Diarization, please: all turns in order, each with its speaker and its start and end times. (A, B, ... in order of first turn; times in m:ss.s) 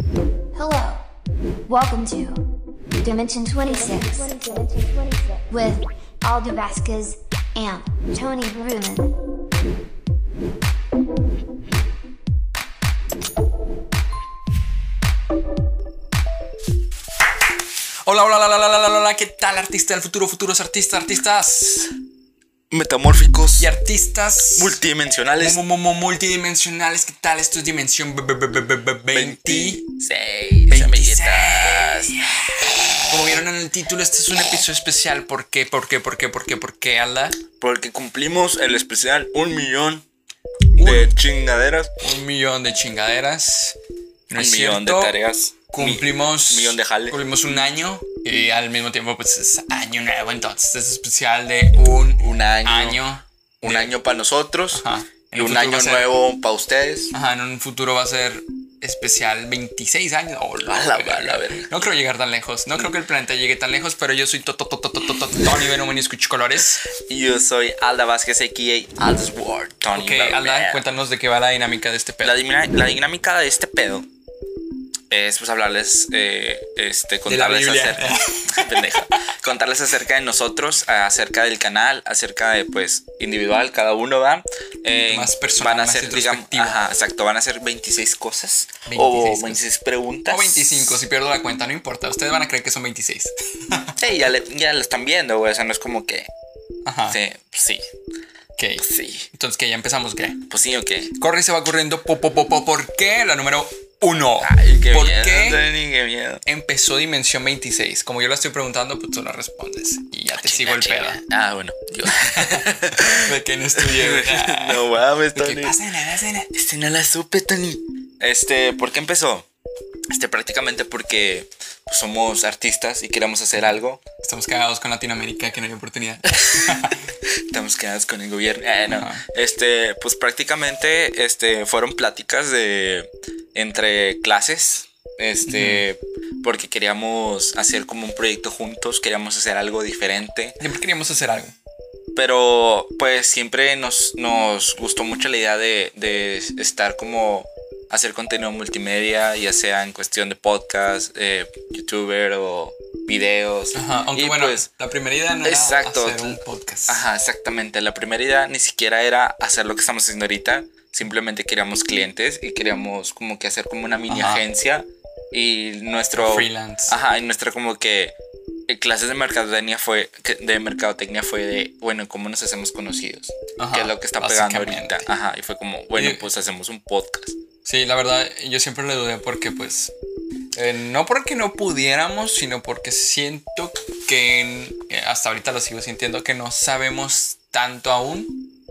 0:00.5-0:01.0 A
0:01.7-0:02.4 A
0:03.0-0:09.1 A
0:18.0-0:21.9 B
0:22.7-0:23.7 C
0:23.6-0:24.8 B
0:24.5-0:25.6 C
0:25.4-0:29.8 B
0:29.1-0:32.2 C
0:30.7-0:32.4 B
0:33.1-0:37.4 B
0:37.6-0:40.0 C
0:40.8-0:41.1 B
0:40.8-0:42.0 C
0:42.0-0:43.8 B
0:44.3-0:45.2 B
0:44.3-0:47.2 C
0:45.7-0:54.0 B
0:52.2-0:53.0 C
0:53.6-0:57.1 C
0:54.7-0:56.1 B
0:57.1-1:06.8 B
1:00.6-1:01.8 C
1:06.9-1:10.8 C
1:09.9-1:12.4 B
1:12.2-1:14.0 C
1:15.1-1:31.0 C
1:17.2-1:18.9 B
1:24.9-1:26.8 B
1:28.9-1:29.6 B
1:30.3-1:34.0 B
1:34.0-1:36.3 C
1:36.8-1:37.2 B
1:37.1-1:37.8 C
1:38.6-1:40.4 B
1:38.8-1:39.3 C
1:40.5-1:41.2 C
1:41.2-1:45.7 B
1:44.4-1:46.4 C
1:46.4-1:51.2 B
1:50.3-1:55.8 C
1:52.2-1:56.5 B
1:56.5-1:59.5 C
2:00.1-2:04.0 C
2:04.2-2:07.0 B
2:06.4-2:06.6 C
2:07.5-2:20.6 C
2:08.8-2:09.2 B
2:15.4-2:15.8 B
2:20.6-2:21.5 B
2:22.1-2:34.7 C
2:33.7-2:37.0 B
2:35.4-2:48.2 C
2:44.1-2:44.4 B
2:46.2-2:46.9 B
2:48.7-2:57.4 C
2:53.6-2:55.1 B
2:56.0-2:56.2 B
2:57.6-2:59.9 B
3:00.5-3:08.3 B